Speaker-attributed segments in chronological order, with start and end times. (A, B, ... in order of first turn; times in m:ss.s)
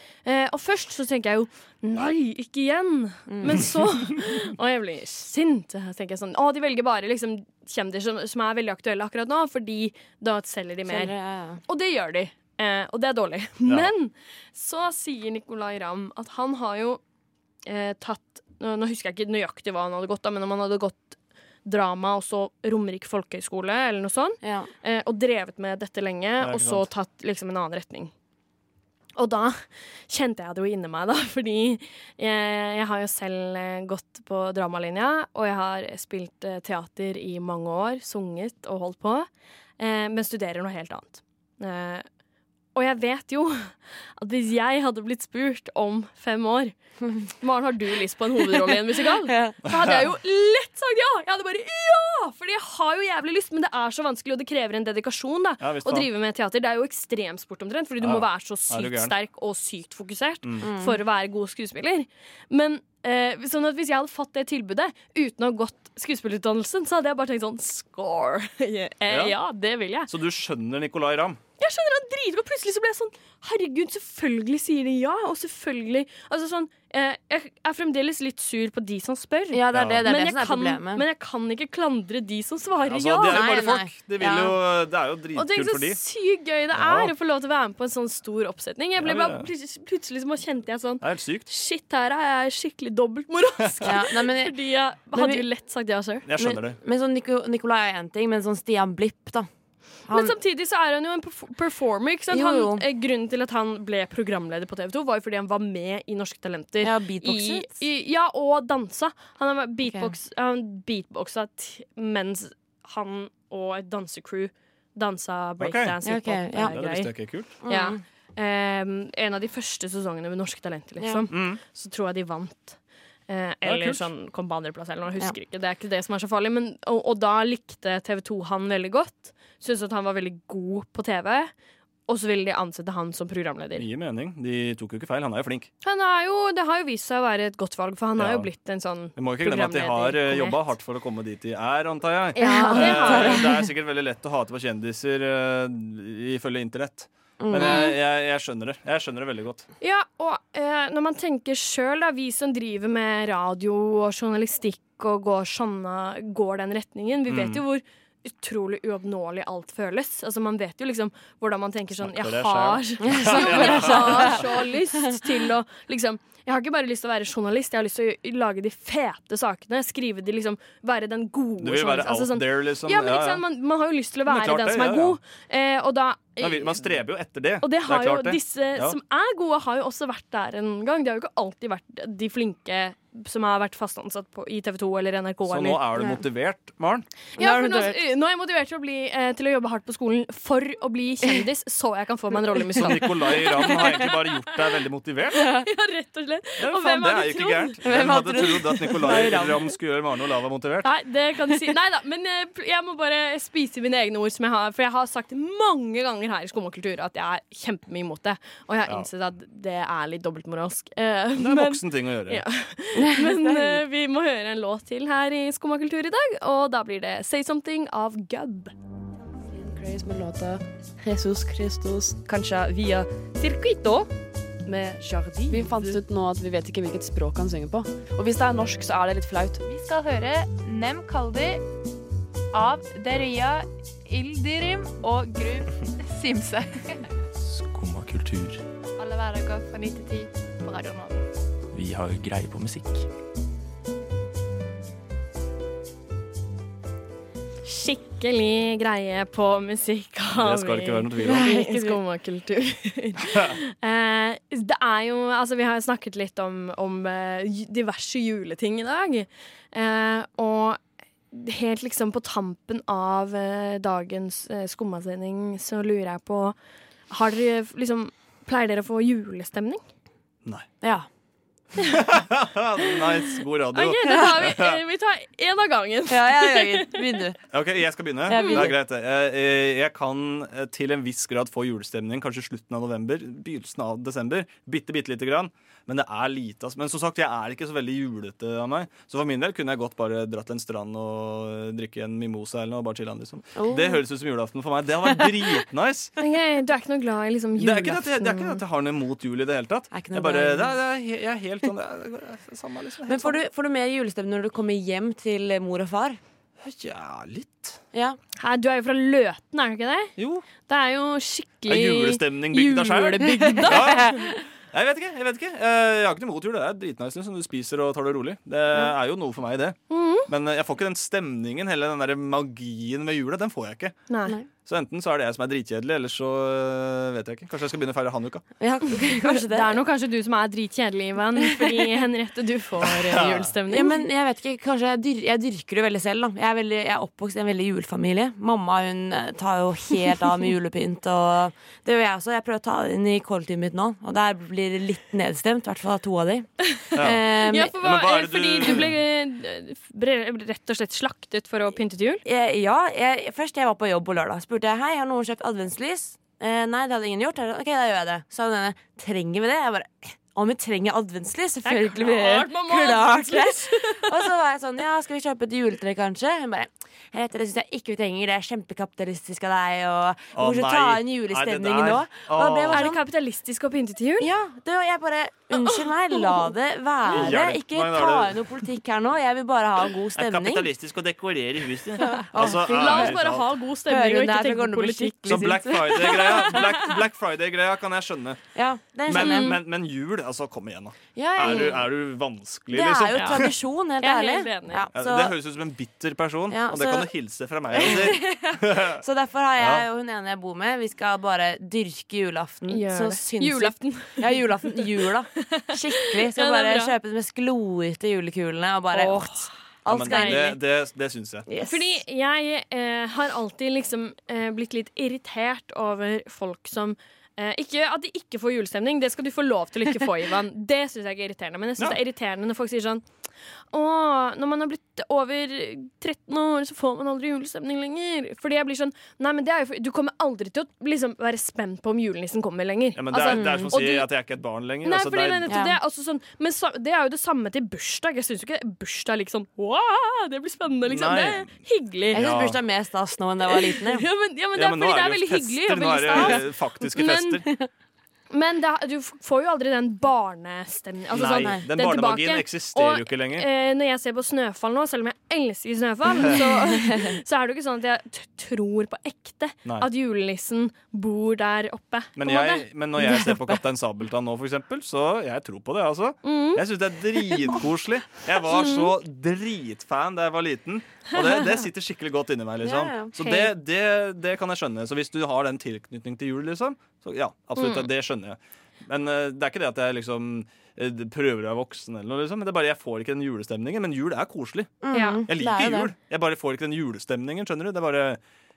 0:00.2-0:11.1 A
0:03.3-0:03.7 B
0:10.9-0:11.6 B
0:11.7-0:17.0 A
0:17.6-0:28.1 A
0:24.4-0:24.7 B
0:26.4-0:26.9 C
0:29.2-0:39.3 A
0:39.8-0:42.1 A
0:42.8-0:46.8 A
0:47.3-1:10.1 A
0:49.3-0:49.6 B
0:55.6-0:56.1 C
0:58.0-0:59.1 C
1:00.6-1:01.0 B
1:09.1-1:09.4 C
1:10.1-1:11.4 C
1:11.6-1:23.6 A
1:19.5-1:21.1 B
1:19.7-1:20.0 C
1:22.9-1:26.0 C
1:23.2-1:24.6 B
1:25.4-1:36.3 A
1:26.7-1:27.1 C
1:29.0-1:29.5 C
1:31.0-1:31.5 C
1:33.8-1:34.6 B
1:35.1-1:35.4 B
1:36.3-1:36.8 C
1:36.4-1:39.5 B
1:40.1-1:40.4 B
1:40.1-1:57.1 A
1:42.3-1:42.8 B
1:46.8-1:47.8 B
1:49.9-1:50.1 B
1:55.6-1:55.9 C
1:56.0-1:56.8 B
1:56.7-1:57.5 C
1:57.6-1:58.0 B
1:57.6-2:11.5 A
2:01.0-2:01.3 B
2:01.3-2:01.6 C
2:03.6-2:04.1 C
2:12.1-2:13.9 A
2:13.8-2:15.7 C
2:15.8-2:20.6 A
2:18.2-2:18.5 C
2:19.2-2:29.7 C
2:22.4-2:23.5 A
2:22.4-2:23.7 B
2:27.4-2:27.9 B
2:27.6-2:27.9 A
2:29.8-2:56.8 A
2:37.3-2:37.6 C
2:42.0-2:44.4 C
2:43.0-2:45.2 B
2:51.6-2:53.4 C
2:54.3-2:55.2 C
2:56.4-2:59.0 C
2:57.6-3:05.8 A
3:05.5-3:07.1 C
3:07.4-3:14.4 A
3:07.4-3:08.0 B
3:12.8-3:15.5 C
3:15.5-3:17.8 A
3:16.6-3:20.9 C
3:17.8-3:19.8 B
3:20.8-3:38.7 A
3:31.4-3:32.4 C
3:33.0-3:33.8 B
3:39.5-3:42.2 D
3:42.3-3:44.1 A
3:44.7-3:46.0 A
3:45.5-3:49.6 D
3:49.6-3:51.6 E
3:52.5-3:57.0 E
3:57.4-3:58.6 F
3:59.0-4:01.2 E
4:01.7-4:03.0 F
4:07.6-4:20.8 A
4:10.4-4:11.5 C
4:11.2-4:12.0 B
4:13.3-4:13.6 C
4:21.3-4:26.6 A
4:27.1-4:29.8 A
4:30.8-4:31.1 B
4:31.8-4:34.8 C
4:33.7-4:37.1 A
4:34.0-4:34.3 B
4:36.1-4:37.4 B
4:37.5-4:56.2 C
4:38.3-4:38.8 B
4:38.3-4:38.7 A
4:53.6-4:54.0 B
4:56.2-4:58.6 A
4:57.6-5:03.4 C
4:59.9-5:00.8 B
5:03.1-5:06.2 B
5:06.6-5:07.8 C
5:07.9-5:08.2 B
5:08.4-5:14.4 A
5:10.2-5:10.5 C
5:11.7-5:14.1 C
5:13.5-5:14.1 B
5:14.7-5:24.0 C
5:19.9-5:20.3 A
5:24.1-5:24.4 A
5:24.6-5:28.5 C
5:28.6-5:29.8 B
5:29.2-5:34.0 A
5:32.8-5:33.5 C
5:33.7-5:47.7 B
5:46.9-5:47.2 C
5:47.4-5:52.2 A
5:47.8-5:49.0 C
5:52.2-6:13.0 B
6:01.6-6:04.3 A
6:10.3-6:12.9 C
6:12.7-6:14.3 A
6:14.2-6:20.7 B
6:15.5-6:16.5 A
6:17.1-6:18.4 C
6:20.2-6:23.5 C
6:22.0-6:23.3 B
6:22.1-6:26.9 A
6:23.9-6:26.6 B
6:25.3-6:28.4 C
6:28.6-6:29.6 B
6:29.1-6:33.5 C
6:29.2-6:29.6 A
6:31.2-6:31.8 B
6:31.4-6:31.8 A
6:32.7-6:35.4 B
6:33.2-6:33.5 A
6:34.0-6:34.9 A
6:35.0-6:39.0 C
6:36.5-6:37.1 B
6:37.7-6:50.6 B
6:39.6-6:39.9 C
6:42.7-6:44.8 A
6:45.5-6:46.9 A
6:48.9-6:49.5 A
6:49.9-6:51.5 C
6:50.0-6:50.5 A
6:51.5-6:52.0 B
6:51.6-7:03.0 A
7:03.7-7:14.1 A
7:13.0-7:15.5 C
7:13.3-7:13.7 B
7:14.8-7:22.2 A
7:15.5-7:15.8 B
7:20.9-7:21.5 C
7:22.1-7:24.1 B
7:22.1-7:22.6 C
7:23.5-7:27.4 A
7:24.6-7:27.5 C
7:26.1-7:26.4 B
7:28.3-7:43.2 A
7:31.1-7:33.5 C
7:31.3-7:31.6 B
7:36.8-7:37.2 B
7:42.2-8:04.8 C
7:46.2-7:46.6 A
7:48.6-7:48.8 A
7:52.6-7:53.2 B
7:53.2-7:53.5 A
7:57.6-7:57.9 A
8:04.8-8:05.9 B
8:04.9-8:05.2 A
8:05.3-8:08.2 C